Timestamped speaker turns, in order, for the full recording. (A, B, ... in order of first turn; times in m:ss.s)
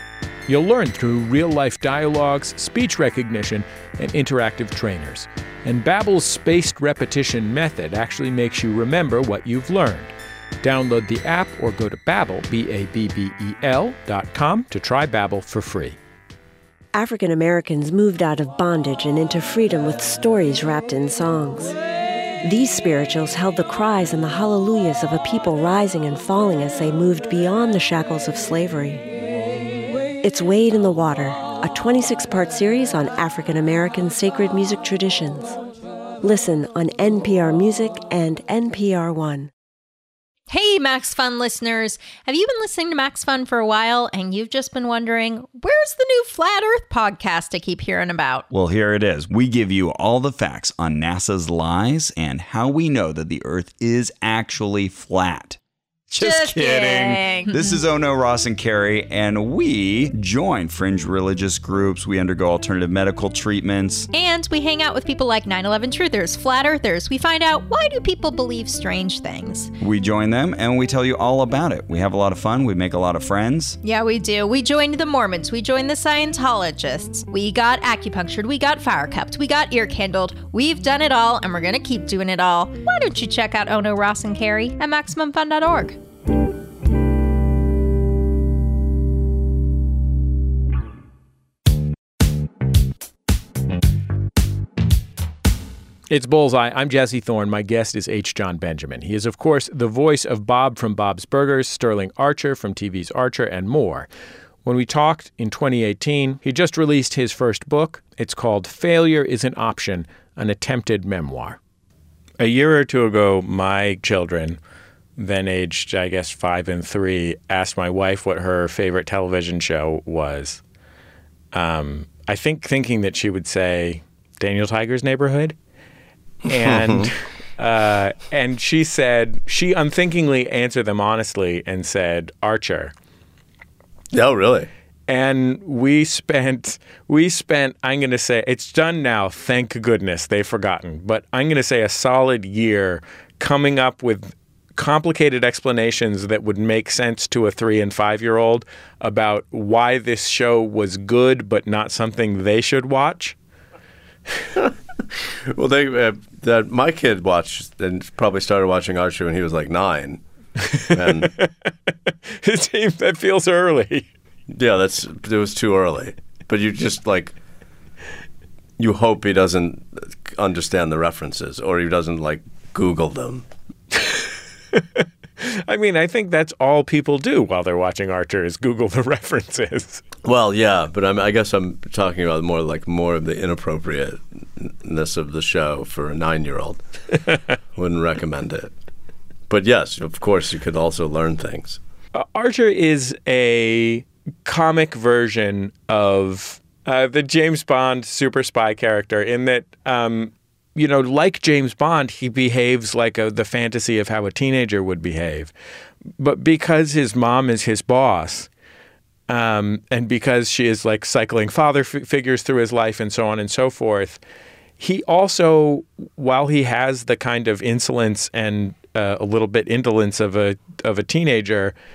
0:00.5-0:16.0 A
0:16.9-0:21.7 B
0:22.4-0:29.0 B
0:30.2-0:35.6 B
0:36.2-0:39.5 B
0:40.5-0:48.5 C
0:48.5-0:55.6 D
0:56.1-1:04.1 D
0:56.2-0:57.8 C
1:04.1-1:09.7 C
1:09.8-1:13.8 D
1:13.8-1:26.0 C
1:36.1-1:44.1 A
1:44.6-1:51.6 A
1:52.4-1:54.6 A
1:55.2-2:00.6 A
2:01.5-2:05.6 A
2:06.5-2:12.9 A
2:06.5-2:07.1 E
2:14.1-2:14.7 E
2:15.1-2:33.4 A
2:34.6-2:40.2 E
2:40.7-2:44.1 A
2:40.9-2:41.3 E
2:44.5-2:47.4 E
2:48.8-2:53.5 E
2:54.0-3:00.0 A
3:00.2-3:06.8 E
3:07.8-3:08.7 E
3:09.5-3:11.8 E
3:12.1-3:25.5 A
3:26.2-3:28.5 A
3:29.3-3:34.2 A
3:34.8-3:41.8 A